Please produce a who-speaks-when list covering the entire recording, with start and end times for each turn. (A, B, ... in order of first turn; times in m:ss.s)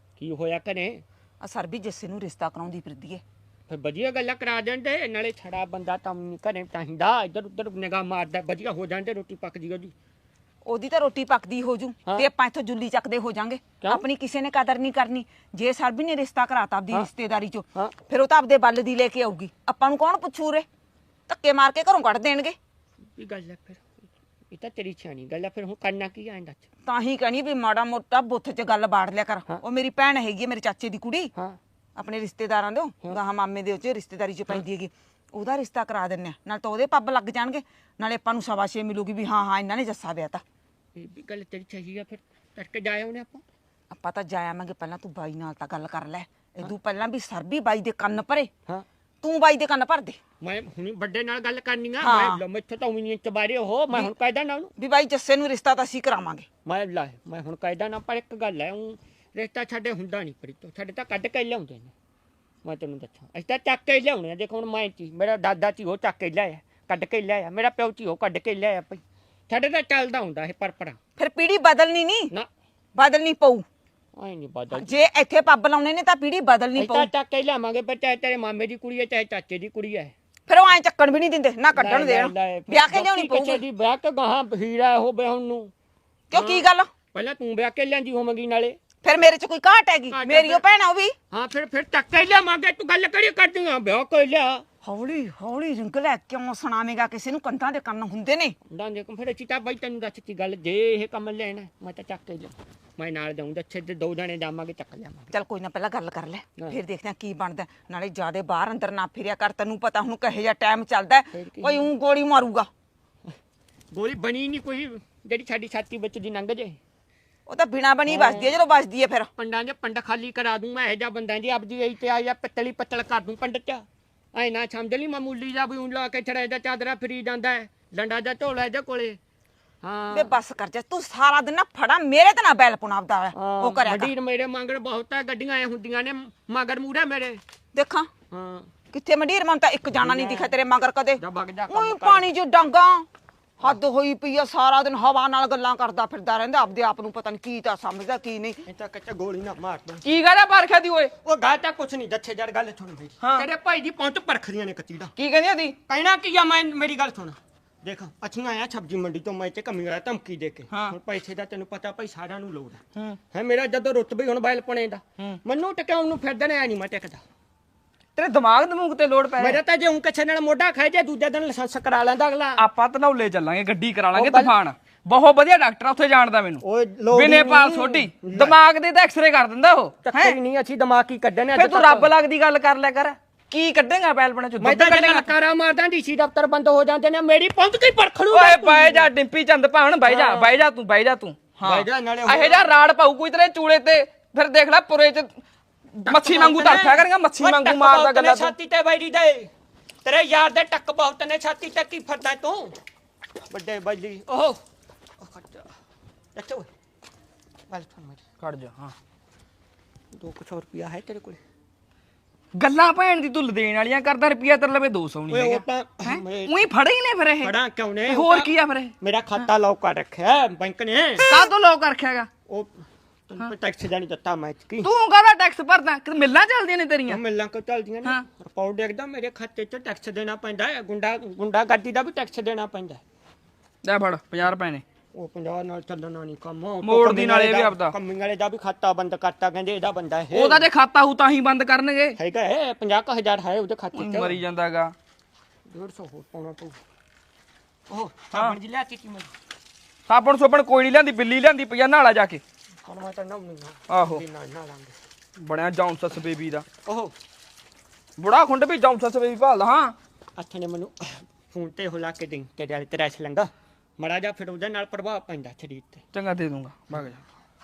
0:00.2-0:01.0 A
0:01.4-0:03.2 B
0:03.7-0:09.9 A
0:10.6-0:20.7 B
0:21.3-0:22.5 B
0:23.2-0:24.0 A
0:24.5-0:26.7 A
0:26.9-0:31.3 B
0:32.0-0:40.4 B
0:41.0-0:43.4 A
0:43.9-0:48.5 B
0:49.2-0:50.2 B
0:50.4-0:54.7 A
0:52.0-0:52.4 B
0:54.8-0:56.4 B
0:56.7-1:01.9 A
1:02.6-1:11.0 A
1:11.2-1:12.3 B
1:13.0-1:13.6 B
1:14.2-1:14.9 A
1:14.7-1:17.1 B
1:16.8-1:20.1 A
1:20.5-1:23.6 B
1:21.8-1:25.7 A
1:26.3-1:26.9 B
1:26.3-1:28.8 A
1:29.0-1:31.1 B
1:30.1-1:30.6 A
1:31.3-1:34.6 A
1:34.8-1:38.6 B
1:38.7-1:45.3 A
1:45.3-1:52.7 B
1:51.3-1:51.9 A
1:53.9-1:56.8 A
1:57.5-1:59.3 B
1:58.1-1:58.6 A
1:59.4-2:09.2 A
2:09.8-2:10.4 A
2:10.1-2:14.1 B
2:13.4-2:17.4 A
2:17.8-2:18.1 B
2:18.3-2:18.7 A
2:18.9-2:23.1 B
2:20.0-2:20.6 A
2:21.2-2:22.3 A
2:23.6-2:28.6 B
2:28.7-2:30.0 A
2:30.0-2:31.1 C
2:31.2-2:35.1 A
2:33.2-2:33.5 C
2:35.2-2:35.8 C
2:35.9-2:42.8 A
2:43.3-2:47.2 A
2:48.2-2:49.6 C
2:49.4-2:52.6 A
2:52.6-3:00.4 C
2:54.1-2:54.6 A
2:56.6-2:58.6 A
3:00.0-3:02.1 A
3:01.6-3:05.3 C
3:04.6-3:09.1 A
3:08.3-3:15.3 C
3:10.0-3:10.6 A
3:11.6-3:12.7 A
3:16.0-3:18.5 C
3:16.1-3:19.5 A
3:20.0-3:22.8 A
3:23.5-3:24.6 A
3:25.2-3:25.7 A
3:26.4-3:26.7 A
3:27.7-3:28.2 A
3:28.4-3:29.0 C
3:30.2-3:31.4 A
3:32.6-3:37.5 C
3:35.3-3:36.6 A
3:37.4-3:41.3 A
3:38.1-3:39.0 C
3:41.3-3:42.3 C
3:43.3-3:44.9 A
3:44.8-3:47.2 C
3:47.1-3:53.0 A
3:53.8-3:54.8 C
3:55.1-4:00.7 A
3:56.8-3:58.0 C
4:00.3-4:02.2 C
4:02.2-4:04.4 A
4:03.9-4:04.9 C
4:05.7-4:06.8 A
4:07.9-4:09.3 A
4:10.1-4:12.4 C
4:12.8-4:14.9 A
4:13.9-4:14.2 C
4:15.4-4:16.7 C
4:16.9-4:17.1 A
4:18.2-4:20.0 C
4:20.4-4:26.0 A
4:26.1-4:27.2 C